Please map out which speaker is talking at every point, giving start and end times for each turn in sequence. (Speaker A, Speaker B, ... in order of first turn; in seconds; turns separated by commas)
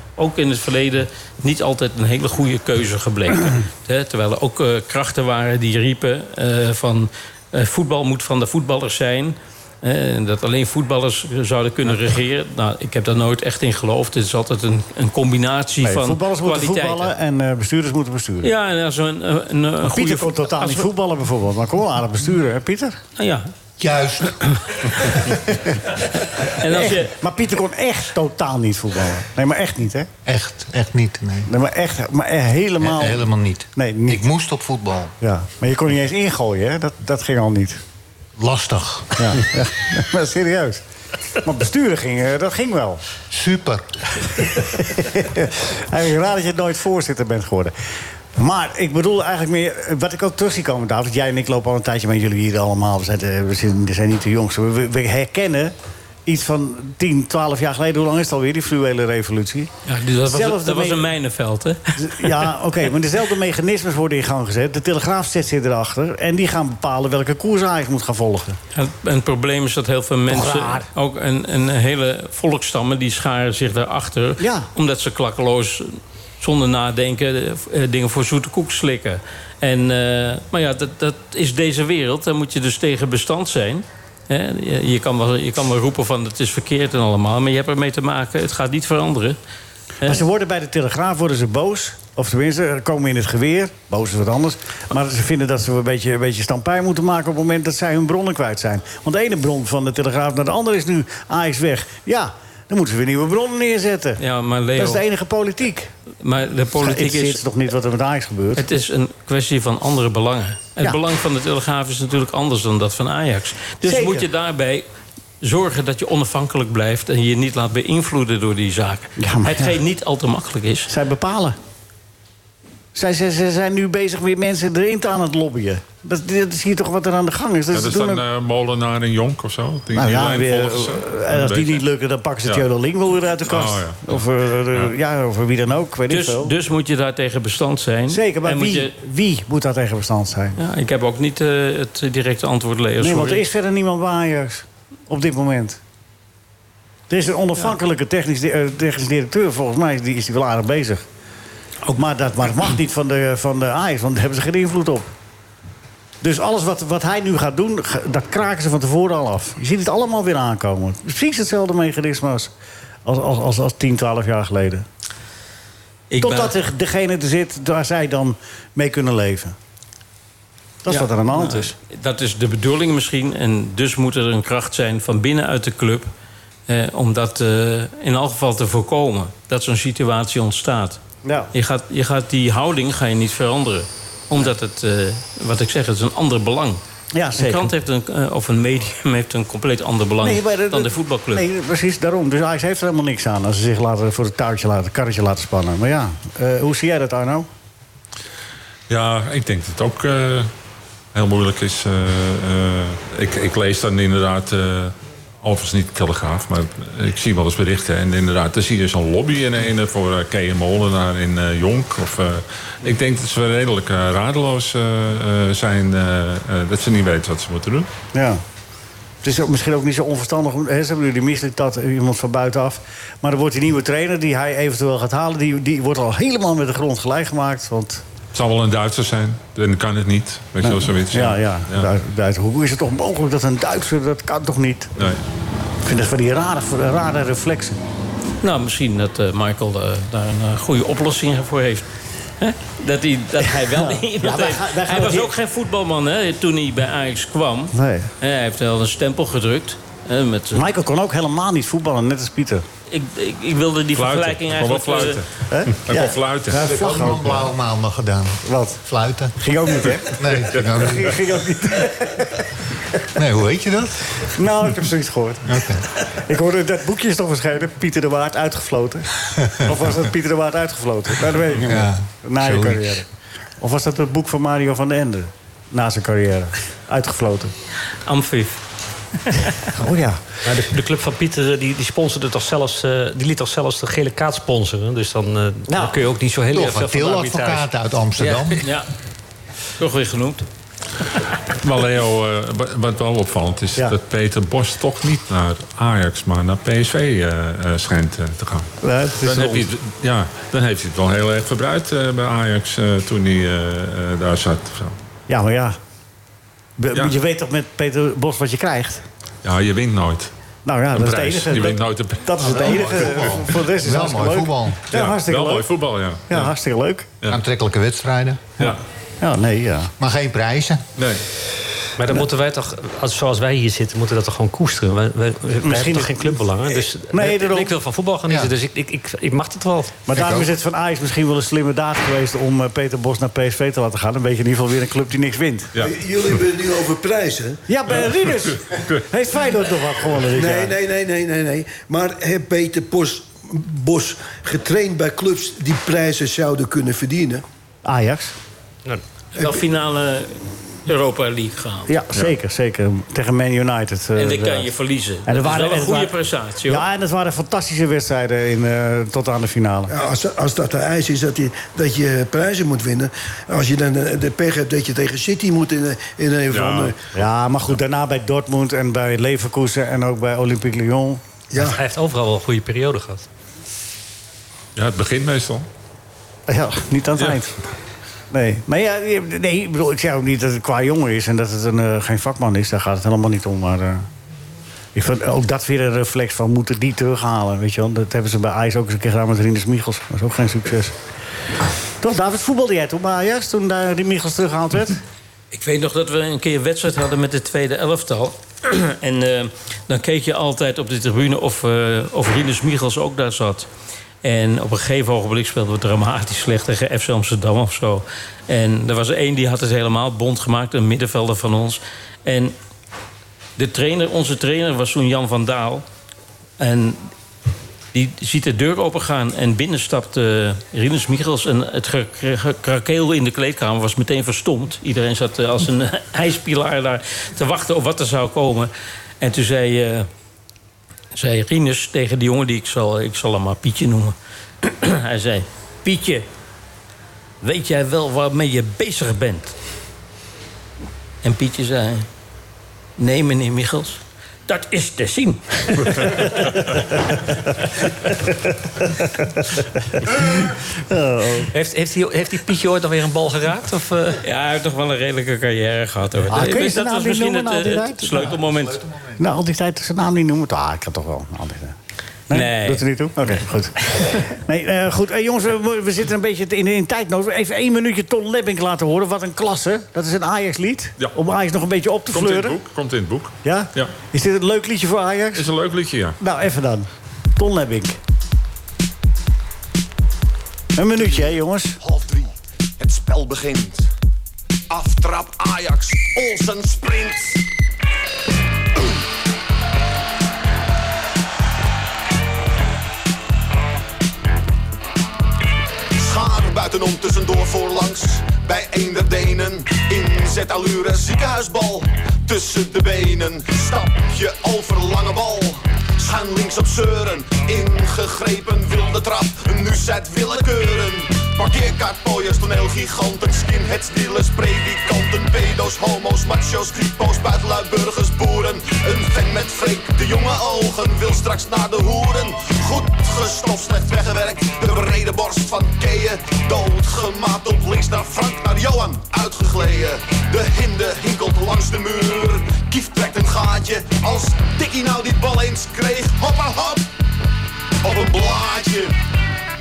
Speaker A: 0.2-17.1, Speaker B: 15.8-18.5, Speaker A: 18.4-20.9, Speaker B: 19.8-23.0, Speaker A: 23.2-23.5, Speaker C: 23.8-25.3, Speaker A: 26.4-27.1, Speaker B: 26.6-30.1, Speaker C: 30.2-31.5, Speaker B: 31.5-34.3, Speaker C: 32.8-35.1, Speaker B: 35.2-37.8, Speaker C: 38.4-39.4, Speaker B: 39.2-40.8, Speaker B: 41.4-43.0, Speaker C: 43.3-43.9, Speaker B: 44.9-47.7, Speaker B: 48.4-55.7, Speaker B: 56.3-59.7, Speaker A: 59.9-62.5, Speaker B: 60.3-61.1, Speaker B: 62.0-68.6, Speaker A: 68.7-89.4, Speaker B: 70.3-70.9, Speaker B: 74.4-74.7, Speaker B: 90.0-104.2, Speaker A: 104.2-105.0, Speaker B: 104.8-105.9, Speaker A: 106.2-107.4, Speaker B: 106.8-108.7, Speaker A: 108.6-114.8, Speaker B: 113.8-114.3, Speaker A: 115.4-120.9, Speaker B: 119.2-119.8, Speaker B: 120.9-121.6, Speaker B: 123.0-128.2, Speaker D: 127.7-131.8, Speaker B: 129.9-136.6, Speaker D: 133.5-134.2, Speaker A: 136.1-138.9, Speaker B: 138.1-140.6, Speaker A: 140.6-143.4, Speaker B: 143.0-145.8, Speaker B: 147.1-151.1, Speaker B: 151.9-155.1, Speaker B: 156.2-162.5, Speaker B: 163.1-164.8, Speaker A: 166.1-166.5, Speaker B: 166.2-169.6, Speaker B: 170.8-171.7, Speaker A: 170.9-176.1, Speaker A: 176.7-181.0, Speaker B: 181.2-181.5, Speaker A: 181.5-186.8, Speaker B: 187.1-187.7, Speaker A: 187.4-191.4, Speaker B: 190.2-197.5, Speaker D: 198.9-200.5, Speaker D: 201.1-217.9, Speaker B: 218.1-218.4, Speaker B: 219.2-228.0, Speaker D: 228.3-231.9, Speaker B: 230.6-234.9, Speaker B: 235.8-237.8, Speaker A: 238.4-241.9, Speaker A: 242.4-250.7, Speaker B: 243.6-245.3, Speaker B: 247.7-248.1, Speaker B: 250.5-252.7, Speaker A: 252.9-255.2, Speaker D: 253.9-256.6, Speaker B: 255.5-257.5, Speaker C: 256.6-259.4, Speaker B: 258.4-258.8, Speaker B: 259.4-262.4, Speaker C: 259.9-261.2, Speaker C: 263.1-264.0, Speaker B: 264.3-273.1, Speaker C: 265.5-265.8, Speaker C: 271.6-272.9, Speaker B: 273.6-277.5, Speaker A: 278.1-278.6, Speaker B: 279.7-280.2, Speaker E: 280.4-287.7, Speaker B: 285.7-285.9, Speaker C: 286.5-288.7, Speaker E: 288.2-288.6, Speaker A: 288.6-288.9, Speaker A: 289.8-290.4, Speaker D: 291.5-305.0, Speaker B: 298.8-299.7, Speaker B: 305.3-305.8, Speaker B: 306.8-309.0, Speaker D: 309.4-310.3, Speaker B: 310.7-315.7, Speaker D: 310.9-313.1, Speaker C: 312.5-314.8, Speaker D: 314.9-316.5, Speaker B: 316.3-317.1, Speaker C: 317.3-318.5, Speaker B: 318.6-319.9, Speaker C: 320.0-320.9, Speaker E: 322.0-330.0, Speaker B: 325.6-327.7, Speaker B: 330.1-335.7, Speaker C: 330.1-330.5, Speaker F: 335.8-337.6, Speaker B: 337.7-340.8, Speaker F: 340.3-347.4, Speaker B: 347.9-348.3, Speaker A: 349.4-351.9, Speaker B: 351.9-354.7, Speaker A: 354.1-356.9, Speaker B: 355.3-359.9, Speaker F: 359.9-366.9, Speaker D: 366.5-366.9, Speaker B: 367.1-371.2, Speaker F: 371.5-371.8, Speaker E: 371.7-373.3, Speaker D: 374.8-375.6, Speaker B: 376.5-377.6, Speaker B: 378.3-384.1, Speaker B: 384.9-390.9, Speaker B: 392.0-395.0, Speaker A: 395.5-403.7, Speaker A: 404.2-412.6, Speaker A: 413.6-415.9, Speaker A: 416.6-417.0, Speaker A: 417.9-430.1, Speaker A: 431.1-436.3, Speaker A: 437.4-439.6, Speaker A: 441.2-442.1, Speaker A: 443.0-447.5, Speaker B: 446.4-446.8, Speaker B: 448.4-449.4, Speaker B: 450.0-451.5, Speaker E: 451.5-454.2, Speaker A: 454.2-458.8, Speaker B: 456.3-458.3, Speaker C: 458.1-459.2, Speaker B: 459.2-461.8, Speaker B: 462.3-472.6, Speaker A: 462.3-462.9, Speaker D: 472.1-473.9, Speaker B: 473.4-475.5, Speaker D: 475.4-476.2, Speaker B: 476.2-478.0, Speaker B: 480.8-481.8, Speaker G: 481.8-483.9, Speaker G: 484.7-487.4, Speaker G: 495.9-536.9, Speaker G: 537.8-539.0